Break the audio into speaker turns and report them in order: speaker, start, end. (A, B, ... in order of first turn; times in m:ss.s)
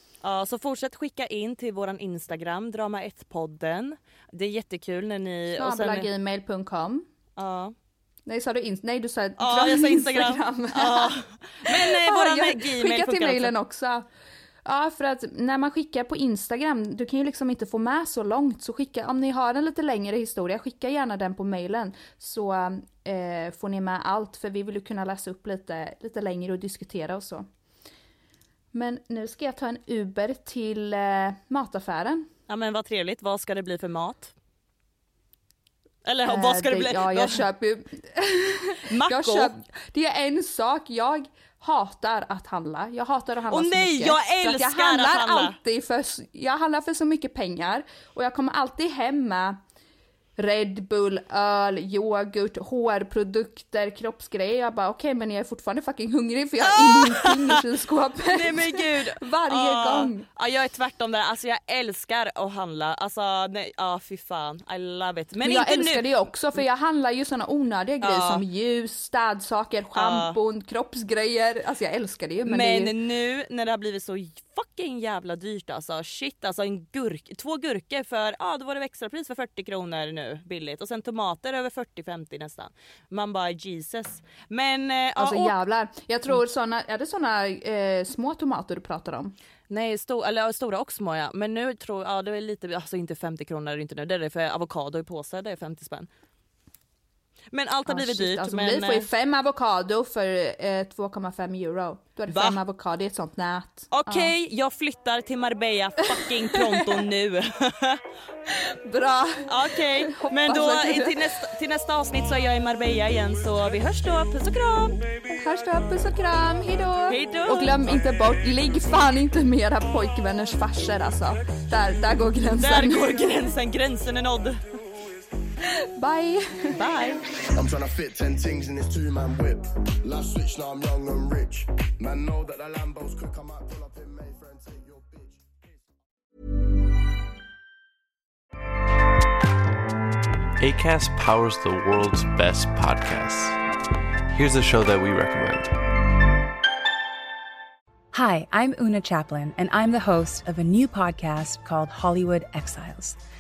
0:00.2-0:06.1 A
0:05.6-0:07.0 B
0:07.4-0:07.8 A
0:08.3-0:11.2 B
0:09.4-0:13.5 A
0:11.7-0:14.1 B
0:14.6-0:27.5 B
0:28.7-0:32.3 B
0:32.5-0:34.3 A
0:36.0-0:37.4 A
0:36.3-0:49.6 B
0:38.9-0:39.5 A
0:43.5-0:45.6 A
0:50.4-1:00.3 B
0:56.6-0:57.6 A
0:58.2-1:06.0 A
1:05.4-1:12.9 B
1:08.0-1:08.4 A
1:10.0-1:10.4 A
1:12.4-1:25.6 A
1:25.2-1:29.4 B
1:29.7-1:36.1 A
1:37.5-1:39.1 A
1:37.9-1:44.3 B
1:42.3-1:42.6 A
1:43.9-1:48.0 A
1:46.1-1:47.0 B
1:48.5-1:51.4 B
1:49.5-1:55.0 A
1:55.4-2:03.2 B
1:57.1-1:58.0 A
2:02.6-2:04.6 A
2:05.8-2:06.8 B
2:06.8-2:07.2 A
2:07.5-2:15.8 C
2:20.6-2:23.6 D
2:24.3-2:25.7 D
2:28.1-2:33.2 E